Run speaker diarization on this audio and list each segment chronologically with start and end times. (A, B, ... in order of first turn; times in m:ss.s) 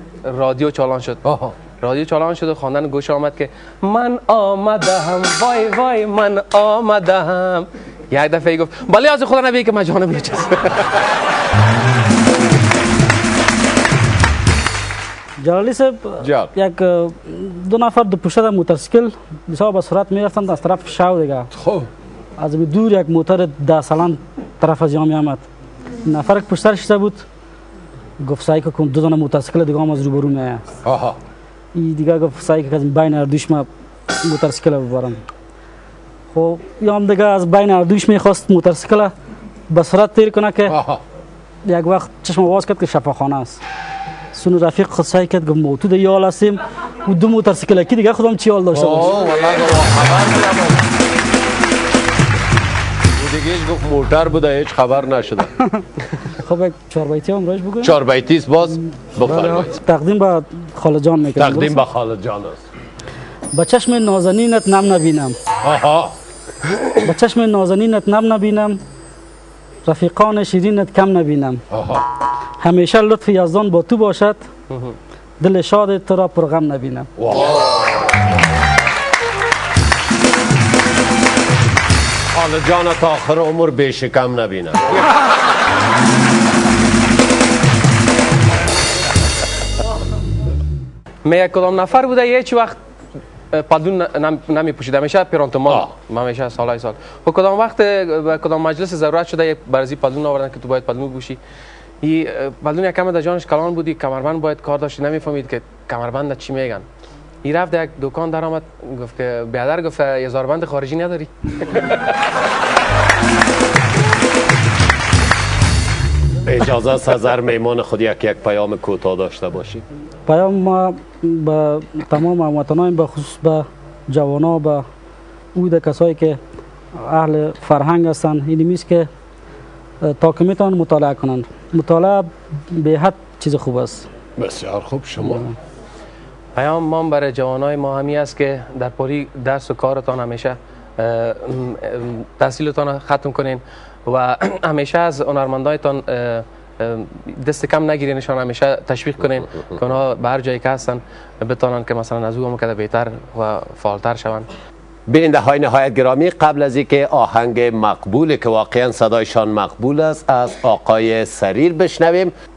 0:00.2-0:01.2 A
0:01.2-0:01.6 B
0:01.8-0:11.0 A
0:15.4-0:21.5 C
0:16.2-0:16.5 B
0:21.5-0:21.9 B
0:22.4-0:25.4 C
0:26.0-0:27.2 C
0:28.2-0:30.6 C
0:30.8-0:31.2 B
0:31.7-0:33.7 C
0:34.2-0:35.2 C
0:36.3-0:39.1 C
0:39.7-0:40.8 C
0:40.7-0:41.0 B
0:41.6-0:43.6 C
0:44.3-0:49.2 C
0:48.7-0:50.9 B
0:53.1-0:55.5 B
0:56.3-0:58.0 C
0:57.8-0:59.7 B
0:59.2-1:01.8 C
1:01.4-1:02.6 B
1:03.5-1:05.4 C
1:05.6-1:06.1 B
1:07.0-1:08.8 C
1:09.8-1:11.6 C
1:11.7-1:12.1 B
1:12.6-1:14.5 C
1:14.7-1:15.0 A
1:15.4-1:17.1 C
1:17.2-1:18.4 B
1:22.3-1:25.1 B
1:31.2-1:32.8 A
1:33.5-1:41.4 A
1:42.0-1:46.8 A
1:47.4-1:52.0 A
1:56.4-1:59.8 B
2:00.3-2:04.8 C
2:05.5-2:06.4 C
2:07.0-2:09.1 C
2:10.0-2:14.1 C
2:14.4-2:15.4 B
2:15.2-2:15.5 C
2:16.5-2:34.5 A
2:35.1-2:42.3 B